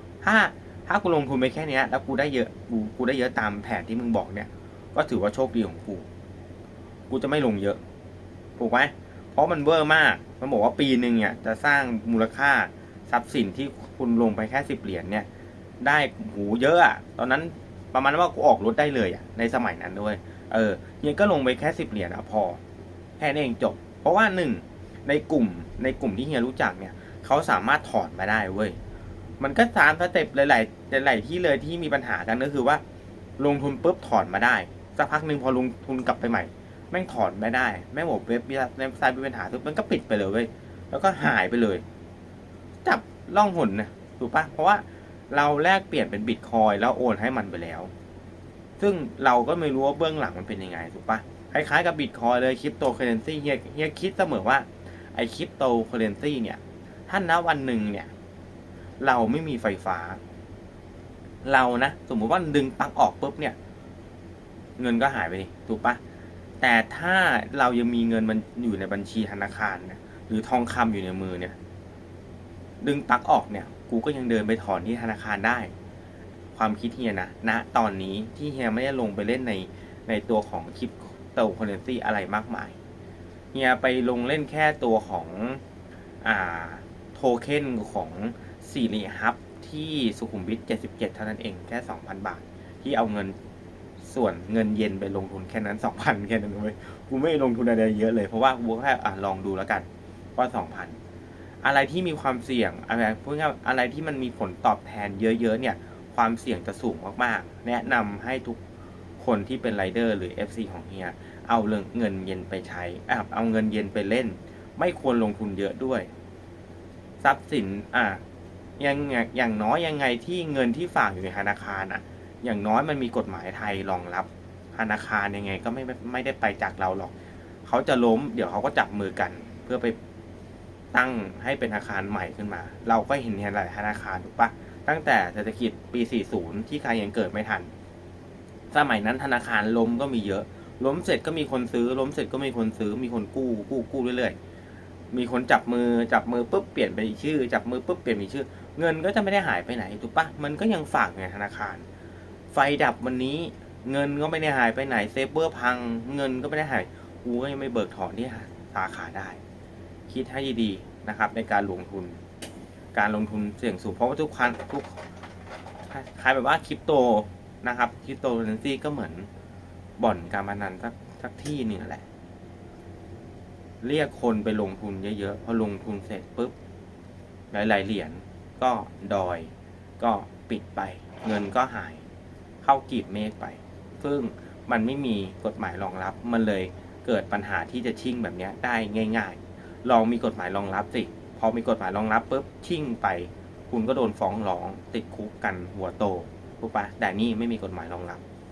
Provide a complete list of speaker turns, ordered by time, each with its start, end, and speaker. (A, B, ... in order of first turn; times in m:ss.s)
0:00.2-0:06.1 A
0:07.1-0:07.8 A
0:08.6-0:15.3 A
0:15.8-0:22.6 A
0:23.2-0:28.8 A
0:29.4-0:32.8 A
0:33.4-0:41.8 A
0:42.8-0:47.9 A
0:48.8-0:58.1 A
0:59.0-1:00.2 A
1:01.4-1:03.6 A
1:04.8-1:06.0 A
1:06.6-1:11.6 A
1:12.8-1:15.7 A
1:16.6-1:22.8 A
1:23.5-1:25.6 A
1:26.2-1:33.4 A
1:34.0-1:41.0 A
1:41.6-1:48.6 A
1:49.2-1:56.1 A
1:57.2-1:58.2 A
1:58.8-2:07.1 A
2:07.7-2:10.0 A
2:10.9-2:17.7 A
2:18.7-2:24.4 A
2:25.1-2:31.8 A
2:32.5-2:39.4 A
2:40.1-2:42.2 A
2:42.9-2:45.0 A
2:45.9-2:49.3 A
2:50.0-2:52.0 A
2:53.8-2:56.5 A
2:57.5-3:02.0 A
3:02.6-3:18.2 A